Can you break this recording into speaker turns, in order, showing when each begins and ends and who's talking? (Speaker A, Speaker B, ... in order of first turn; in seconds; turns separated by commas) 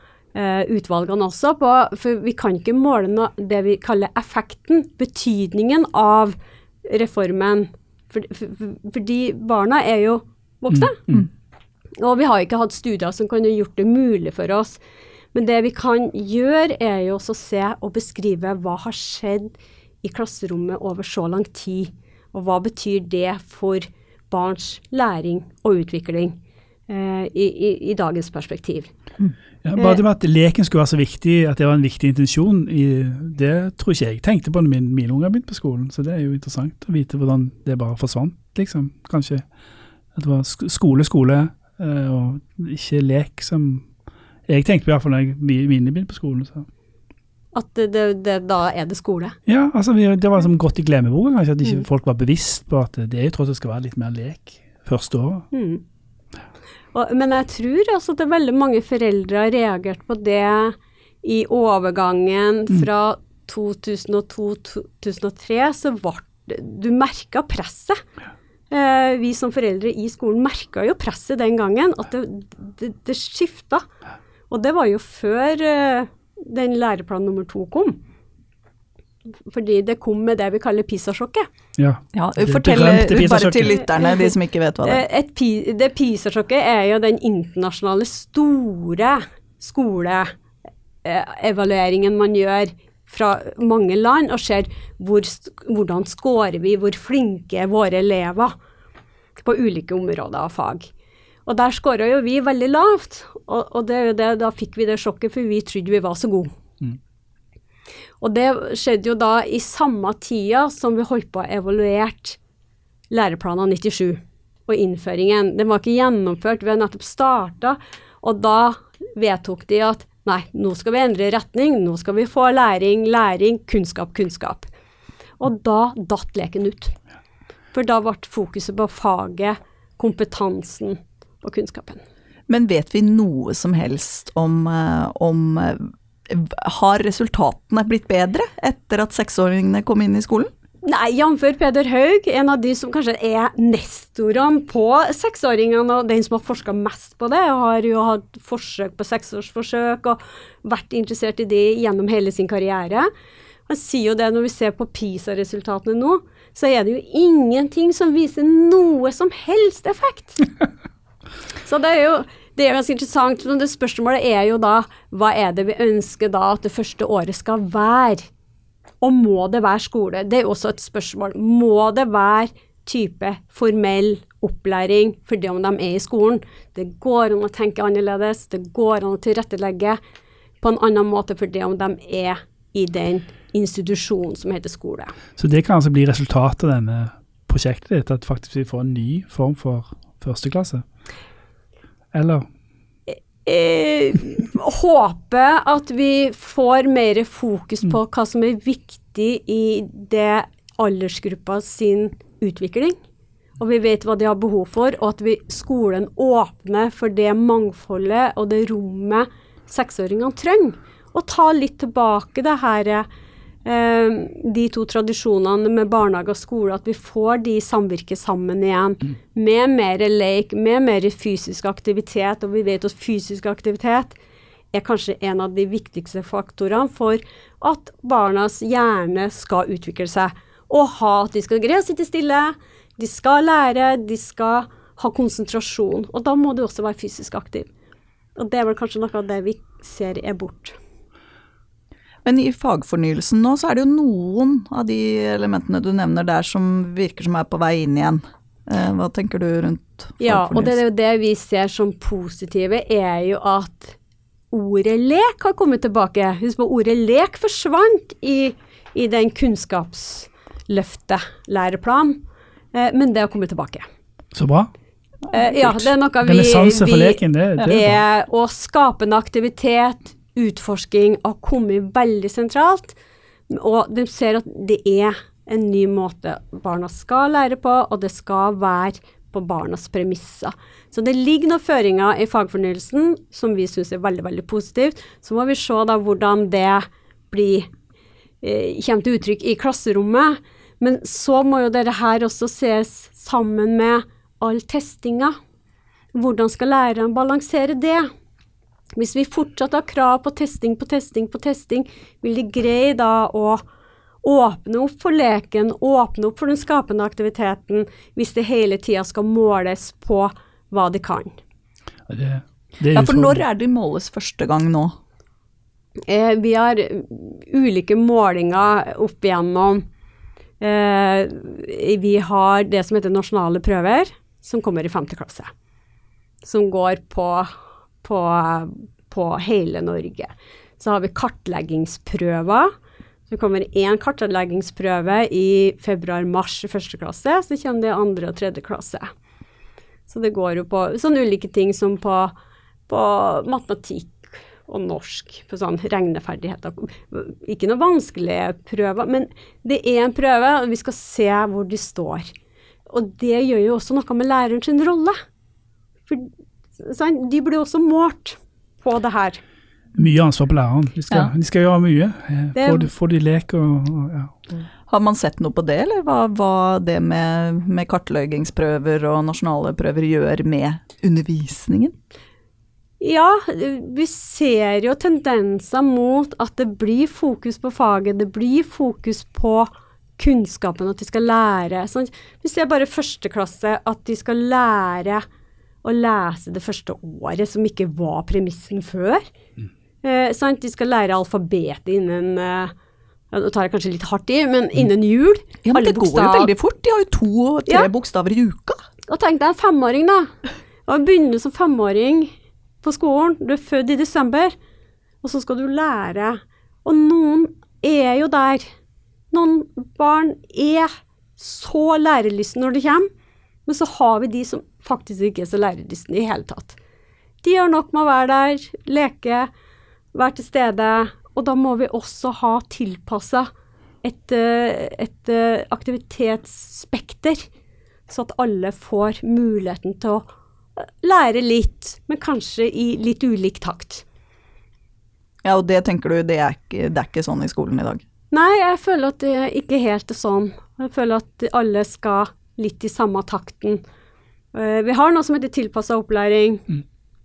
Speaker A: 0.3-11.0, Speaker B: 10.7-11.3, Speaker A: 12.0-14.8, Speaker A: 15.3-26.4, Speaker A: 26.9-28.9, Speaker B: 29.6-39.4, Speaker A: 29.8-30.0, Speaker B: 40.1-43.9, Speaker B: 44.5-46.7, Speaker A: 47.5-49.4, Speaker B: 49.5-55.5, Speaker A: 55.5-55.8, Speaker A: 56.9-68.0, Speaker A: 68.7-73.9, Speaker A: 74.5-78.0, Speaker A: 79.5-81.5, Speaker B: 81.8-83.8, Speaker C: 82.1-85.0, Speaker A: 83.7-90.3, Speaker A: 91.0-98.5, Speaker A: 99.4-100.9, Speaker A: 101.5-106.5, Speaker A: 108.2-112.4, Speaker A: 113.1-124.7, Speaker A: 125.4-127.0, Speaker A: 127.7-132.0, Speaker C: 132.5-140.5, Speaker A: 140.8-153.1, Speaker A: 153.7-160.4, Speaker A: 161.6-168.3, Speaker A: 169.0-180.0, Speaker A: 180.6-185.1, Speaker B: 185.4-190.8, Speaker B: 192.1-192.4, Speaker A: 193.1-203.0, Speaker A: 203.6-213.1, Speaker A: 213.6-224.1, Speaker A: 224.7-237.7, Speaker A: 238.4-240.8, Speaker C: 242.2-250.8, Speaker A: 250.2-254.0, Speaker A: 254.5-262.2, Speaker A: 262.7-263.9, Speaker B: 264.3-264.7, Speaker A: 265.3-272.9, Speaker B: 265.6-268.0, Speaker A: 273.5-287.7, Speaker A: 288.4-295.4, Speaker A: 296.1-298.1, Speaker A: 298.9-303.6, Speaker A: 304.2-311.4, Speaker B: 312.1-313.4, Speaker C: 312.9-314.9, Speaker A: 316.1-319.8, Speaker A: 320.6-325.5, Speaker A: 326.4-332.7, Speaker A: 333.3-339.1, Speaker A: 340.1-342.3, Speaker A: 342.9-352.3, Speaker A: 352.9-355.1, Speaker A: 356.1-359.4, Speaker B: 359.9-364.4, Speaker A: 362.6-362.9, Speaker C: 364.9-371.9, Speaker A: 373.0-385.2, Speaker A: 385.8-389.3, Speaker A: 390.0-392.7, Speaker A: 393.3-396.5, Speaker C: 395.6-398.8, Speaker A: 399.1-400.3, Speaker A: 400.9-404.6, Speaker A: 405.2-408.7, Speaker A: 409.3-413.1, Speaker A: 413.6-416.8, Speaker A: 417.4-419.5, Speaker A: 420.1-423.5, Speaker A: 424.0-427.4, Speaker A: 428.1-430.3, Speaker A: 430.8-434.1, Speaker C: 435.4-438.0, Speaker A: 438.3-443.8, Speaker A: 444.5-446.7